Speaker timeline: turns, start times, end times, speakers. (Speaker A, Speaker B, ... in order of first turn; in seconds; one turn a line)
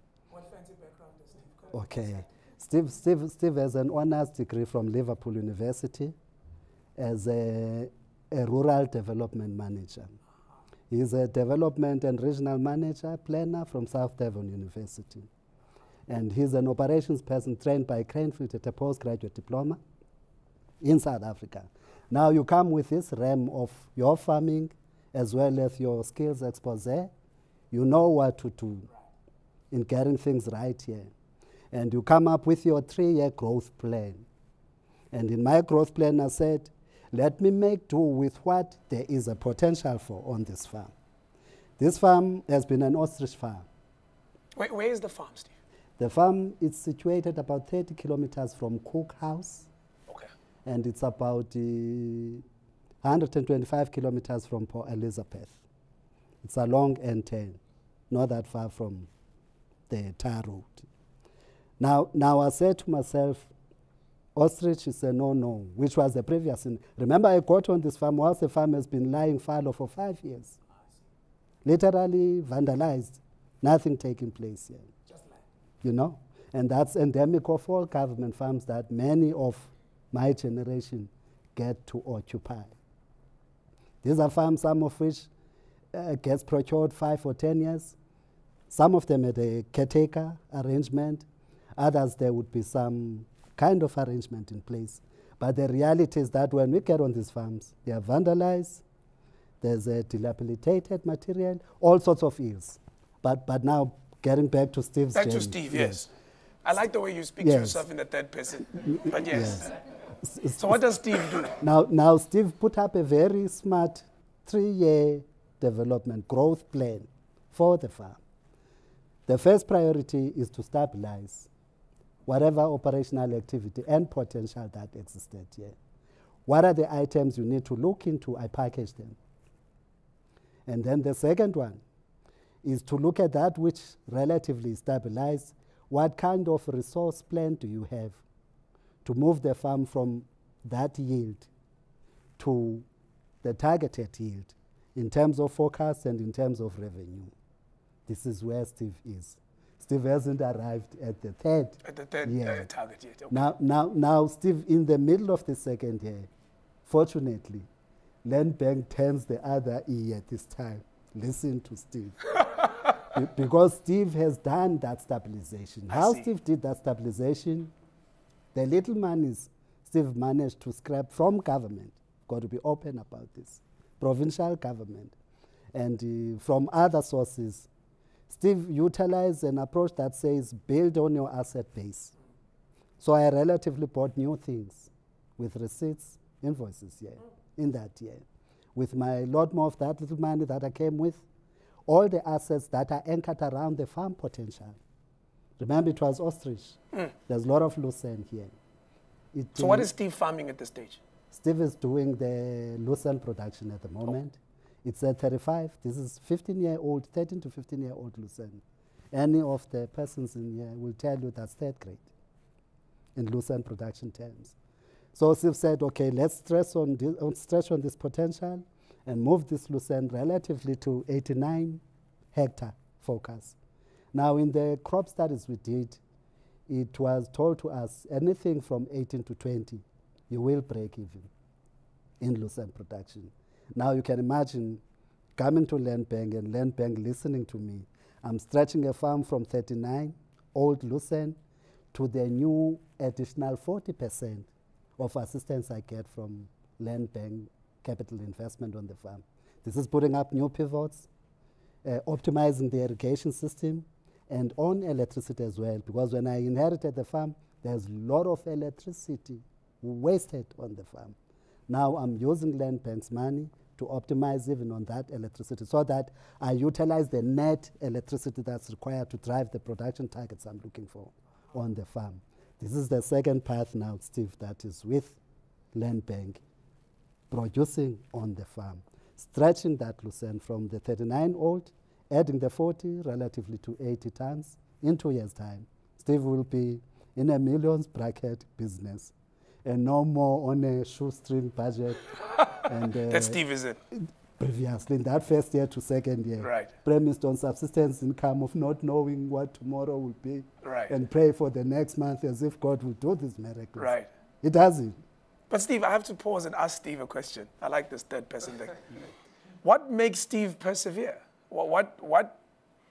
Speaker A: 0.4-1.7
Speaker B: 1.7-6.2
Speaker B: 7.0-10.2
Speaker B: 10.9-15.3
Speaker B: 16.1-19.8
Speaker B: 20.8-27.1
Speaker B: 27.7-28.9
Speaker B: 29.7-31.1
Speaker B: 31.7-34.2
Speaker B: 35.1-40.9
Speaker B: 41.8-43.7
Speaker A: 44.6-45.5
Speaker B: 46.0-49.7
Speaker B: 50.7-52.4
Speaker B: 53.0-55.6
Speaker B: 56.4-59.1
Speaker B: 59.9-60.9
Speaker B: 61.8-63.5
Speaker B: 64.4-70.6
Speaker B: 71.7-74.9
Speaker B: 75.8-82.8
Speaker B: 84.0-85.3
Speaker B: 85.9-88.0
Speaker B: 88.7-91.3
Speaker B: 91.8-98.8
Speaker B: 99.6-106.0
Speaker A: 105.1-106.1
Speaker A: 106.7-109.8
Speaker B: 107.4-107.8
Speaker B: 108.8-118.2
Speaker A: 110.6-111.6
Speaker B: 119.3-121.5
Speaker B: 122.3-125.8
Speaker B: 126.5-129.2
Speaker B: 130.7-131.8
Speaker B: 132.6-138.2
Speaker B: 139.0-141.5
Speaker B: 142.4-142.8
Speaker B: 143.4-147.3
Speaker B: 148.1-152.7
Speaker A: 151.9-153.5
Speaker B: 153.3-156.3
Speaker B: 156.9-157.7
Speaker B: 158.2-162.4
Speaker B: 163.1-167.7
Speaker A: 165.9-166.3
Speaker B: 168.5-175.2
Speaker B: 175.7-177.7
Speaker B: 178.3-182.2
Speaker B: 183.0-191.2
Speaker B: 191.9-194.8
Speaker B: 195.6-198.5
Speaker B: 199.3-199.9
Speaker A: 199.6-201.0
Speaker B: 201.3-212.1
Speaker B: 213.2-214.6
Speaker B: 215.1-221.8
Speaker B: 222.3-223.6
Speaker B: 224.1-226.0
Speaker B: 226.7-231.3
Speaker B: 232.2-234.8
Speaker B: 235.4-241.4
Speaker B: 241.9-251.1
Speaker B: 251.8-261.2
Speaker B: 261.7-275.2
Speaker B: 275.7-276.4
Speaker B: 277.3-289.1
Speaker B: 289.6-292.1
Speaker B: 292.6-293.4
Speaker A: 293.1-293.8
Speaker B: 293.9-305.0
Speaker A: 296.4-296.7
Speaker A: 300.6-300.9
Speaker A: 303.8-304.1
Speaker A: 305.5-308.8
Speaker A: 309.6-312.4